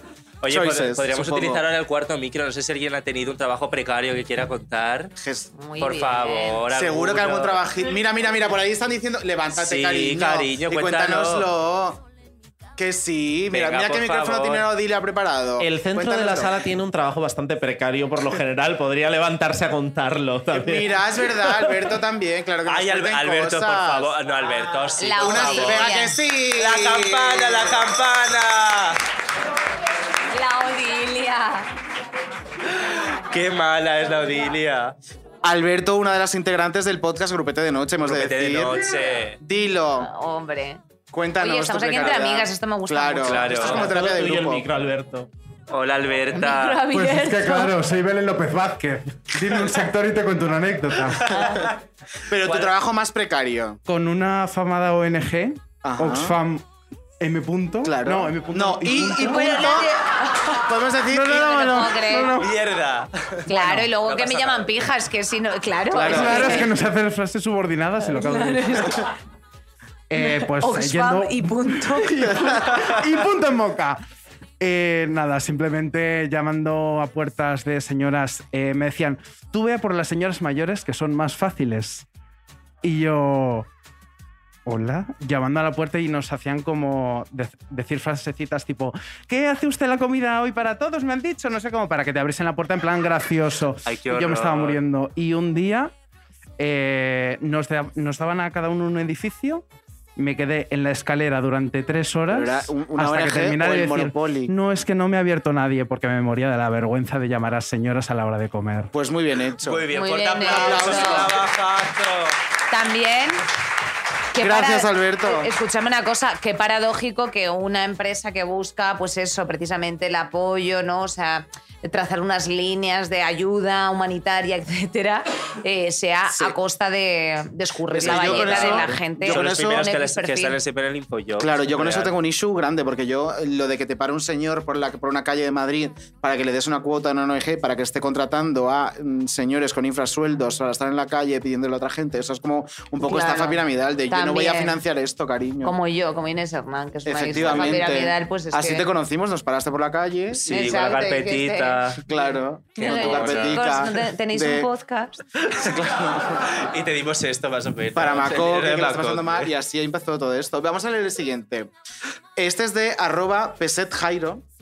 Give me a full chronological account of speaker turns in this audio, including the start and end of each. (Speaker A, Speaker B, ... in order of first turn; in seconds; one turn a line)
Speaker A: 0.4-5.1
Speaker B: 0.5-1.6
Speaker B: 5.2-5.5
Speaker C: 5.5-6.6
Speaker A: 5.8-7.7
Speaker B: 6.7-12.0
Speaker A: 9.6-11.5
Speaker B: 12.8-16.6
Speaker A: 13.5-14.7
Speaker D: 15.6-20.9
Speaker B: 20.5-24.1
Speaker A: 22.6-25.9
Speaker C: 25.0-26.2
Speaker B: 25.2-27.8
Speaker A: 26.5-29.0
Speaker C: 30.3-31.7
Speaker A: 32.7-35.0
Speaker B: 35.4-38.9
Speaker A: 38.0-39.4
Speaker B: 39.4-40.1
Speaker C: 40.0-40.8
Speaker B: 41.1-44.6
Speaker C: 41.4-43.7
Speaker A: 43.2-43.9
Speaker D: 43.7-45.3
Speaker A: 45.7-46.9
Speaker C: 46.3-47.8
Speaker E: 46.9-51.3
Speaker B: 49.4-49.8
Speaker A: 51.3-51.7
Speaker C: 51.3-51.6
Speaker B: 52.3-53.8
Speaker A: 52.4-52.7
Speaker E: 53.9-56.6
Speaker B: 55.8-56.4
Speaker E: 57.2-59.8
Speaker B: 57.8-59.9
Speaker C: 59.2-60.6
Speaker B: 60.5-62.1
Speaker C: 61.1-62.4
Speaker E: 62.0-62.5
Speaker A: 62.4-63.5
Speaker C: 63.5-66.7
Speaker A: 64.0-64.7
Speaker B: 65.9-66.6
Speaker E: 66.0-69.0
Speaker C: 68.0-69.1
Speaker E: 70.1-74.0
Speaker C: 70.2-72.7
Speaker E: 74.6-82.1
Speaker E: 82.8-83.7
Speaker E: 84.7-95.9
Speaker A: 93.8-94.8
Speaker E: 96.6-99.6
Speaker E: 100.2-108.9
Speaker B: 102.3-104.5
Speaker B: 108.9-109.9
Speaker A: 109.6-112.3
Speaker C: 109.9-111.3
Speaker B: 110.4-111.4
Speaker C: 112.7-113.4
Speaker C: 114.3-130.6
Speaker B: 114.3-115.5
Speaker B: 127.9-129.8
Speaker A: 128.0-132.1
Speaker B: 131.4-145.8
Speaker C: 143.0-144.8
Speaker C: 145.6-148.9
Speaker B: 147.1-150.8
Speaker A: 150.3-152.0
Speaker C: 150.4-152.0
Speaker B: 152.1-154.7
Speaker C: 152.8-155.2
Speaker A: 152.8-153.8
Speaker B: 155.6-156.5
Speaker A: 156.5-159.5
Speaker B: 157.9-161.7
Speaker B: 162.3-164.4